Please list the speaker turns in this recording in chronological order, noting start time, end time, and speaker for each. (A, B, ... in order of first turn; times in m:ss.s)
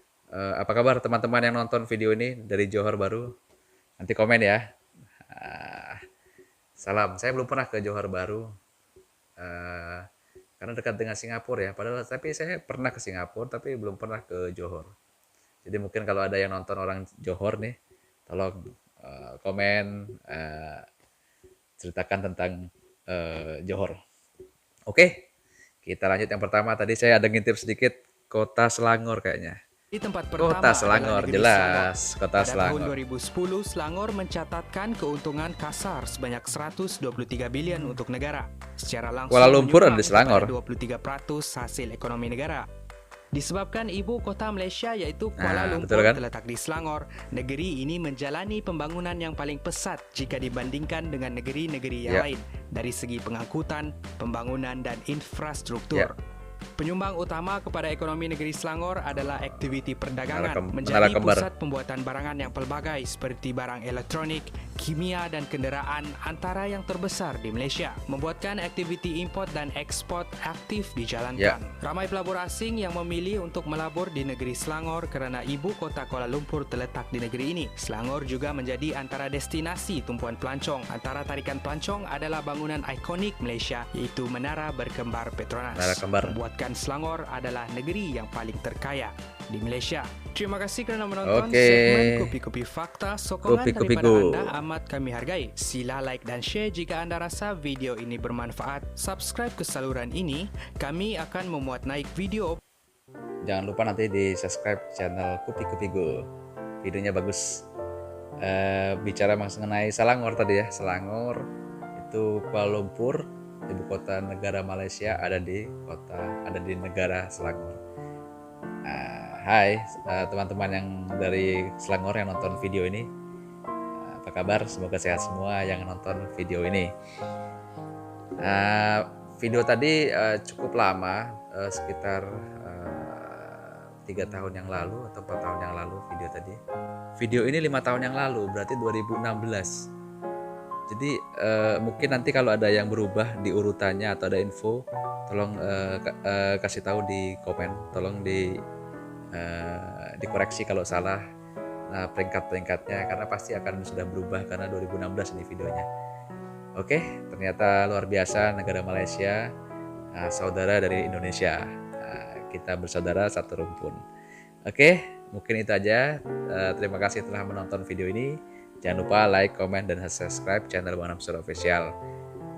0:00.3-0:03.3 A
0:04.0-0:04.6 A
0:05.3-0:06.0 A
0:06.8-0:08.5 A
0:09.4-0:10.0 A
0:10.6-0:14.9 A
0:15.6-0:17.8 A
0:18.3-0:20.8 A
0:21.8-0:24.0 A
0:24.9-0:25.2 A
0:25.8-0:29.6 A
0:29.9-0:42.7 B
0:30.4-0:32.9 A
0:39.3-0:40.5 A
0:43.3-0:56.1 B
0:45.4-0:46.2 A
0:56.8-1:42.6 B
1:00.3-1:01.5 A
1:25.7-1:26.4 A
1:31.2-1:32.3 A
1:33.4-1:34.5 A
1:43.4-1:46.2 A
1:46.8-1:47.6 A
1:48.4-1:51.4 A
1:52.0-1:57.8 A
1:58.9-2:03.1 A
2:04.0-2:06.9 A
2:08.4-2:16.6 A
2:17.2-2:19.7 A
2:20.9-2:28.5 A
2:29.4-2:31.2 A
2:31.9-2:35.9 A
2:36.8-2:39.4 A
2:40.2-2:44.0 A
2:44.7-2:51.9 A